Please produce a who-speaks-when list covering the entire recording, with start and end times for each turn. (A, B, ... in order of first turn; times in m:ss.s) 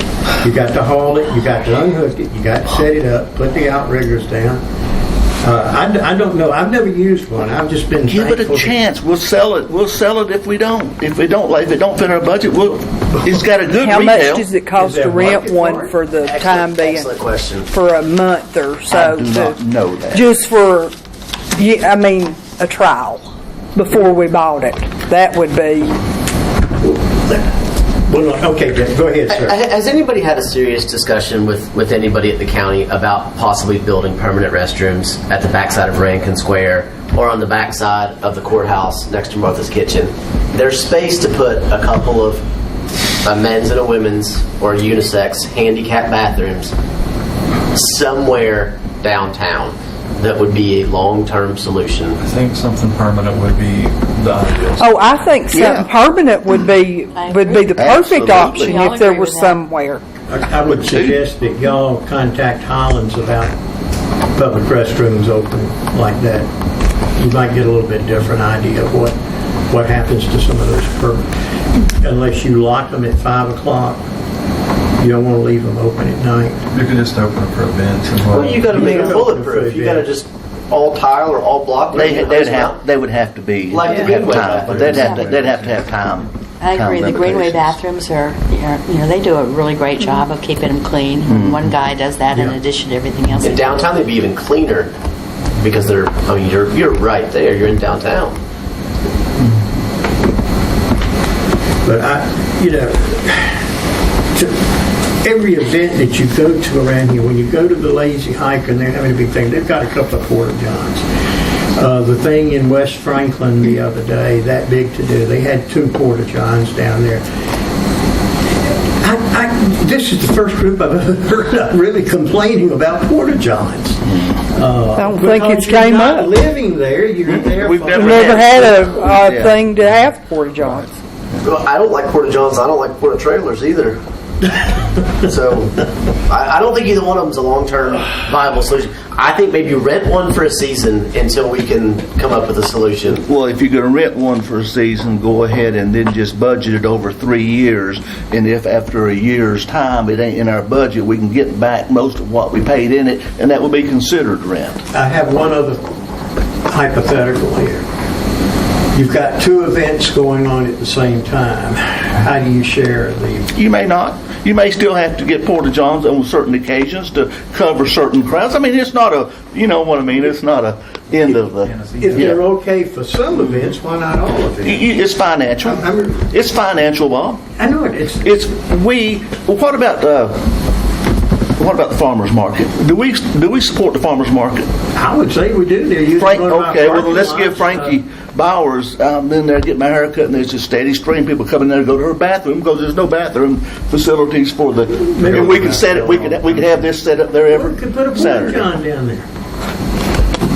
0:00.4-0:04.6 A
0:05.4-0:08.8 A
0:08.1-0:14.5 B
0:13.8-0:19.6 C
0:14.8-0:16.0 A
0:16.2-0:17.7 D
0:18.9-0:20.3 B
0:20.1-0:20.9 C
0:21.5-0:26.0 C
0:26.8-0:29.6 A
0:29.3-0:42.4 D
0:43.2-0:46.7 D
0:47.7-0:52.2 D
0:52.2-0:55.2 E
0:54.8-1:00.0 C
0:55.5-0:55.9 B
0:57.2-0:59.6 F
0:57.8-0:58.9 B
1:00.3-1:03.6 A
1:00.8-1:01.2 B
1:04.4-1:06.5 A
1:07.2-1:09.2 A
1:09.7-1:11.3 A
1:12.0-1:14.0 A
1:15.0-1:16.6 A
1:16.7-1:18.8 E
1:18.3-1:22.8 D
1:18.6-1:20.1 A
1:21.9-1:27.8 B
1:23.7-1:25.0 D
1:24.1-1:26.2 E
1:24.8-1:25.4 F
1:26.6-1:33.7 F
1:31.2-1:31.7 B
1:32.3-1:32.6 A
1:33.4-1:34.9 D
1:35.6-1:38.4 D
1:41.8-1:43.7 A
1:44.3-1:44.6 A
1:45.2-1:57.2 A
1:59.0-2:08.7 A
2:05.0-2:06.3 C
2:07.3-2:09.7 B
2:08.0-2:10.9 C
2:11.4-2:23.2 D
2:23.2-2:34.8 B
2:34.9-2:35.8 A
2:36.7-2:37.8 A
2:38.9-2:43.5 A
2:43.6-2:52.4 B
2:51.6-2:52.4 E
2:52.0-2:54.9 A
2:54.6-2:57.4 B
2:55.6-2:56.2 A
2:57.6-2:58.3 A
2:58.2-3:00.5 B
3:01.6-3:04.7 B
3:04.9-3:08.0 A
3:06.1-3:18.7 B
3:15.0-3:16.8 A
3:17.5-3:19.3 A